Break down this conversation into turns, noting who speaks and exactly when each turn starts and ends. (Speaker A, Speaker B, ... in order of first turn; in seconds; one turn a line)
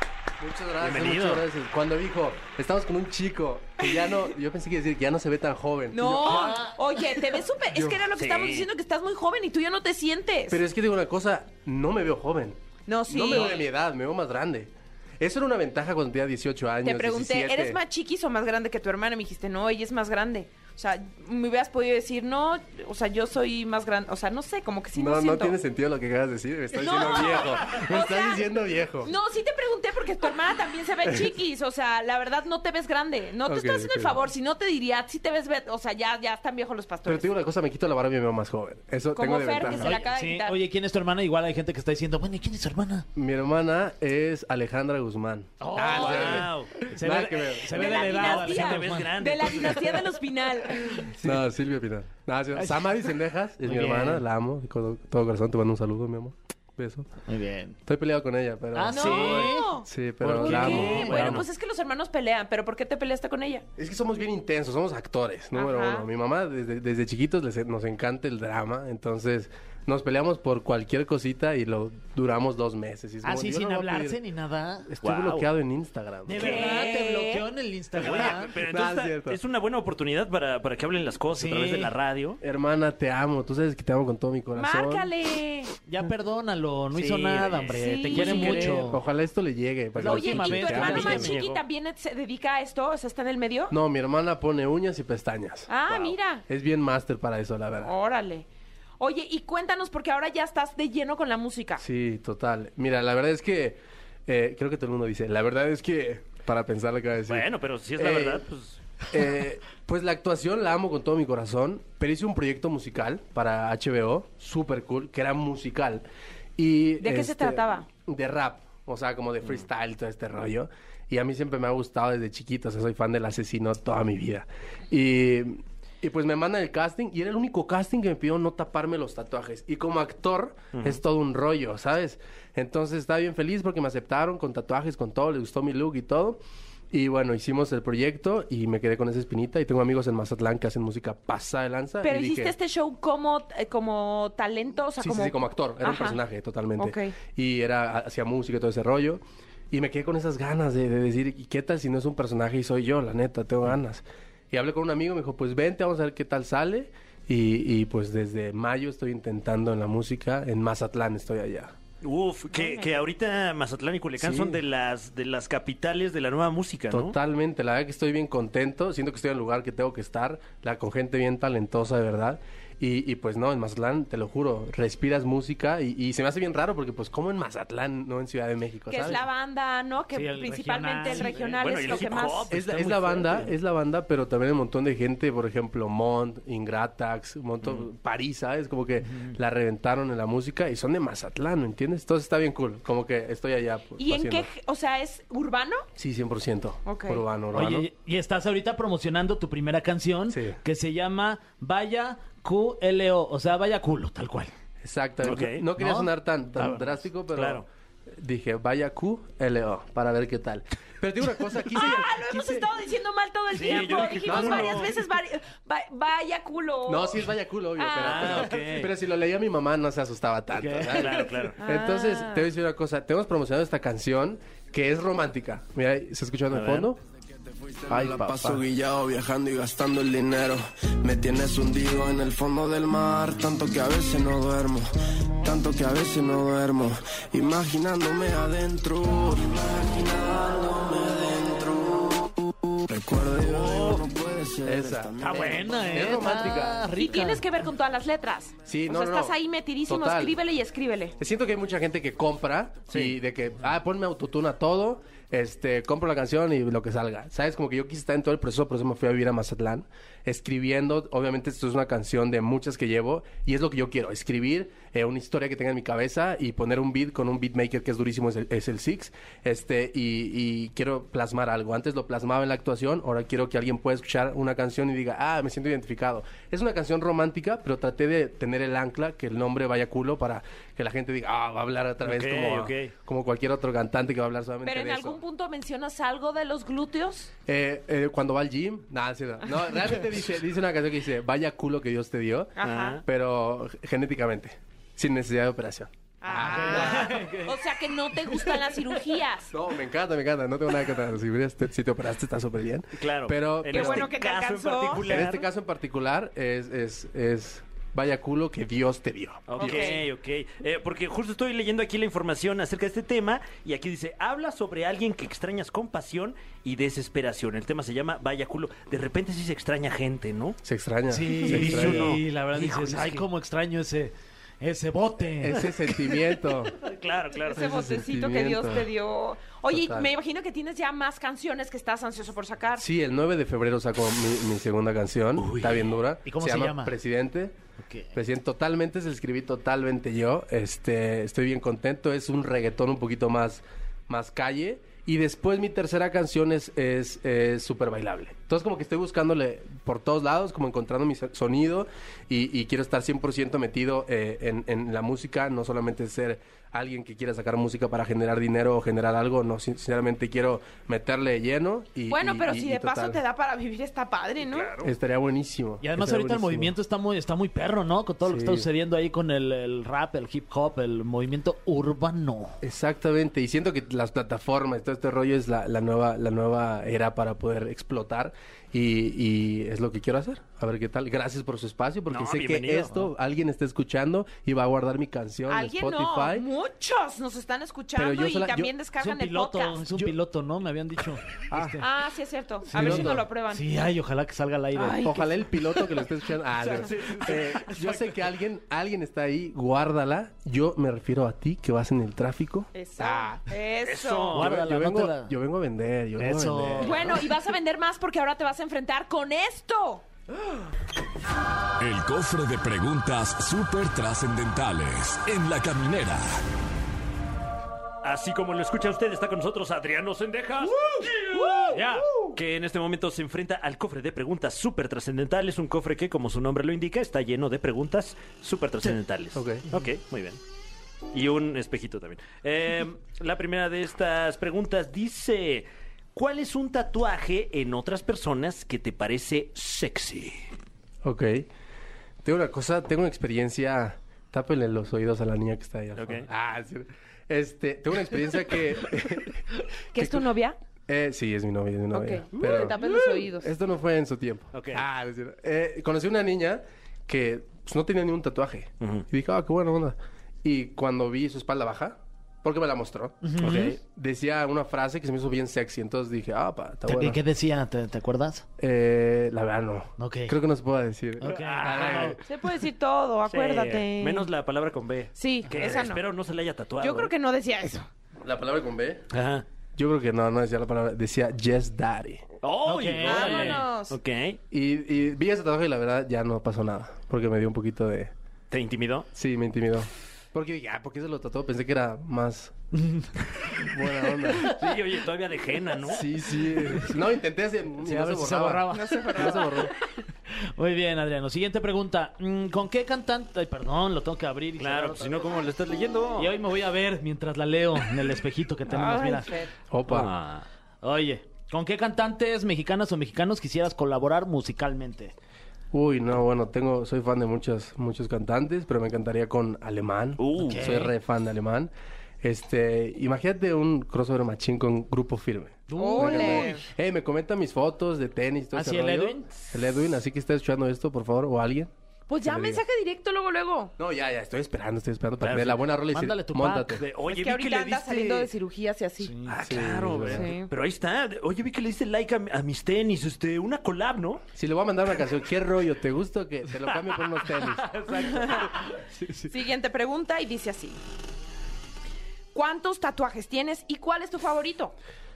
Speaker A: 0.4-6.7
Speaker B: 0.8-1.5
Speaker C: 5.9-10.6
Speaker A: 7.7-8.0
Speaker B: 8.1-8.7
Speaker A: 10.5-17.8
Speaker C: 12.9-13.7
Speaker C: 16.8-25.6
Speaker A: 24.9-29.1
Speaker C: 26.8-28.4
Speaker C: 29.0-37.3
Speaker A: 33.5-34.2
Speaker A: 37.0-40.0
Speaker C: 39.1-40.6
Speaker D: 39.6-43.0
Speaker A: 43.1-47.9
Speaker D: 45.6-49.6
Speaker B: 45.8-46.8
Speaker C: 47.7-51.0
Speaker B: 47.9-50.1
Speaker A: 51.1-57.1
Speaker D: 52.5-53.0
Speaker D: 53.6-54.2
Speaker D: 57.3-57.8
Speaker A: 57.9-61.5
Speaker D: 58.7-61.4
Speaker C: 58.9-63.6
Speaker A: 63.8-74.2
Speaker C: 65.5-66.1
Speaker D: 73.2-74.9
Speaker A: 74.9-76.9
Speaker B: 75.0-75.5
Speaker D: 76.2-78.5
Speaker C: 76.4-77.5
Speaker B: 78.0-82.4
Speaker A: 78.0-79.4
Speaker D: 81.3-81.9
Speaker A: 82.4-85.1
Speaker C: 84.5-85.7
Speaker D: 85.9-89.0
Speaker B: 86.9-88.9
Speaker C: 87.7-88.8
Speaker A: 88.2-91.3
Speaker D: 90.0-91.4
Speaker C: 90.0-93.8
Speaker B: 90.7-91.6
Speaker A: 93.7-97.9
Speaker C: 95.7-96.4
Speaker C: 97.8-98.5
Speaker C: 99.0-101.8
Speaker A: 101.8-108.5
Speaker B: 107.3-108.8
Speaker A: 109.1-116.0
Speaker A: 116.6-136.4
Speaker C: 117.0-117.9
Speaker B: 130.7-131.0
Speaker A: 136.9-142.5
Speaker C: 142.0-146.2
Speaker A: 145.0-161.7
Speaker C: 146.8-147.1
Speaker B: 162.0-167.1
Speaker C: 162.5-162.9
Speaker A: 164.2-164.6
Speaker A: 166.9-179.2
Speaker C: 178.9-182.5
Speaker D: 180.1-182.2
Speaker B: 181.1-183.5
Speaker A: 182.5-194.5
Speaker C: 194.0-195.9
Speaker A: 196.0-197.9
Speaker C: 196.9-197.2
Speaker D: 197.5-204.5
Speaker A: 200.3-200.6
Speaker A: 204.8-212.7
Speaker B: 205.2-205.6
Speaker D: 205.8-206.7
Speaker B: 207.3-207.7
Speaker C: 211.7-218.5
Speaker B: 213.5-215.0
Speaker A: 214.2-214.8
Speaker A: 216.9-227.0
Speaker B: 218.0-218.9
Speaker B: 220.6-221.6
Speaker C: 221.6-222.5
Speaker B: 226.5-226.9
Speaker E: 227.6-246.1
Speaker A: 227.9-228.6
Speaker A: 244.6-246.9
Speaker D: 245.2-247.4
Speaker C: 246.9-251.1
Speaker A: 248.6-250.4
Speaker A: 251.2-285.2
Speaker B: 252.9-253.2
Speaker B: 282.0-282.9
Speaker C: 284.6-287.3
Speaker A: 287.5-297.2
Speaker C: 292.6-293.0
Speaker B: 292.6-293.0
Speaker C: 296.2-299.5
Speaker D: 296.4-297.6
Speaker D: 298.1-298.5
Speaker A: 299.5-304.1
Speaker B: 303.0-305.5
Speaker C: 303.7-305.3
Speaker A: 305.0-309.9
Speaker B: 309.5-320.6
Speaker C: 309.6-310.0
Speaker A: 320.6-322.2
Speaker D: 321.1-325.6
Speaker B: 321.4-323.2
Speaker A: 325.4-326.8
Speaker B: 326.8-327.8
Speaker C: 327.5-332.8
Speaker A: 327.5-328.9
Speaker A: 329.7-330.1
Speaker A: 332.8-337.5
Speaker B: 335.4-335.9
Speaker D: 336.2-336.9
Speaker D: 337.8-338.1
Speaker A: 338.1-363.2
Speaker C: 362.1-364.8
Speaker B: 364.5-364.9
Speaker A: 364.8-366.7
Speaker D: 365.8-372.6
Speaker A: 368.2-368.7
Speaker A: 372.6-386.5
Speaker B: 382.1-383.0
Speaker C: 385.5-389.8
Speaker A: 387.9-388.7
Speaker D: 389.0-391.9
Speaker A: 391.5-391.8
Speaker C: 391.8-393.7
Speaker D: 392.7-395.3
Speaker A: 392.7-393.2
Speaker A: 394.8-403.4
Speaker C: 396.6-396.9
Speaker B: 396.8-398.1
Speaker C: 402.7-404.4
Speaker B: 403.8-404.5
Speaker A: 404.3-407.2
Speaker D: 404.3-405.3
Speaker D: 406.2-407.1
Speaker C: 406.8-410.0
Speaker F: 411.8-416.4
Speaker B: 418.0-430.4
Speaker A: 421.4-422.3
Speaker A: 429.3-429.7
Speaker B: 431.1-440.4
Speaker A: 441.0-441.5
Speaker A: 442.2-450.3
Speaker B: 446.0-446.3
Speaker C: 449.9-450.6
Speaker A: 450.9-467.2
Speaker C: 451.9-453.5
Speaker B: 454.5-454.8
Speaker B: 458.8-459.0
Speaker D: 463.2-463.8
Speaker B: 463.4-463.8
Speaker D: 466.9-468.4
Speaker A: 468.6-472.2
Speaker D: 470.0-470.4
Speaker D: 471.2-472.1
Speaker B: 471.3-472.2
Speaker C: 472.2-474.3
Speaker B: 473.3-477.1
Speaker C: 475.2-476.0
Speaker C: 476.8-477.9
Speaker A: 478.2-479.0
Speaker B: 479.1-479.4
Speaker A: 479.8-482.2
Speaker B: 482.4-484.4
Speaker D: 482.6-483.6
Speaker C: 483.1-484.0
Speaker A: 484.5-488.1
Speaker B: 488.5-489.1
Speaker A: 489.1-492.5
Speaker D: 492.7-493.1
Speaker A: 493.7-494.5
Speaker B: 494.4-496.4
Speaker A: 495.9-499.7
Speaker D: 497.8-499.5
Speaker C: 498.7-499.7
Speaker D: 500.5-505.3
Speaker B: 504.6-506.3
Speaker D: 506.2-509.3
Speaker C: 508.7-509.5
Speaker A: 509.7-510.1
Speaker B: 509.9-510.4
Speaker D: 510.8-515.1
Speaker A: 515.7-531.7
Speaker B: 520.2-520.9
Speaker D: 520.4-520.9
Speaker D: 525.7-526.6
Speaker C: 525.8-526.6
Speaker D: 528.5-529.3
Speaker C: 532.1-533.7
Speaker A: 532.2-532.6
Speaker A: 533.8-536.8
Speaker B: 535.2-535.6
Speaker D: 535.9-536.8
Speaker B: 536.7-538.3
Speaker C: 537.0-539.1
Speaker D: 539.0-539.4
Speaker B: 539.3-544.2
Speaker A: 539.5-540.3
Speaker C: 540.1-540.5
Speaker A: 544.4-547.8
Speaker B: 547.5-548.3
Speaker C: 548.0-548.6
Speaker C: 549.3-550.8
Speaker C: 552.3-554.8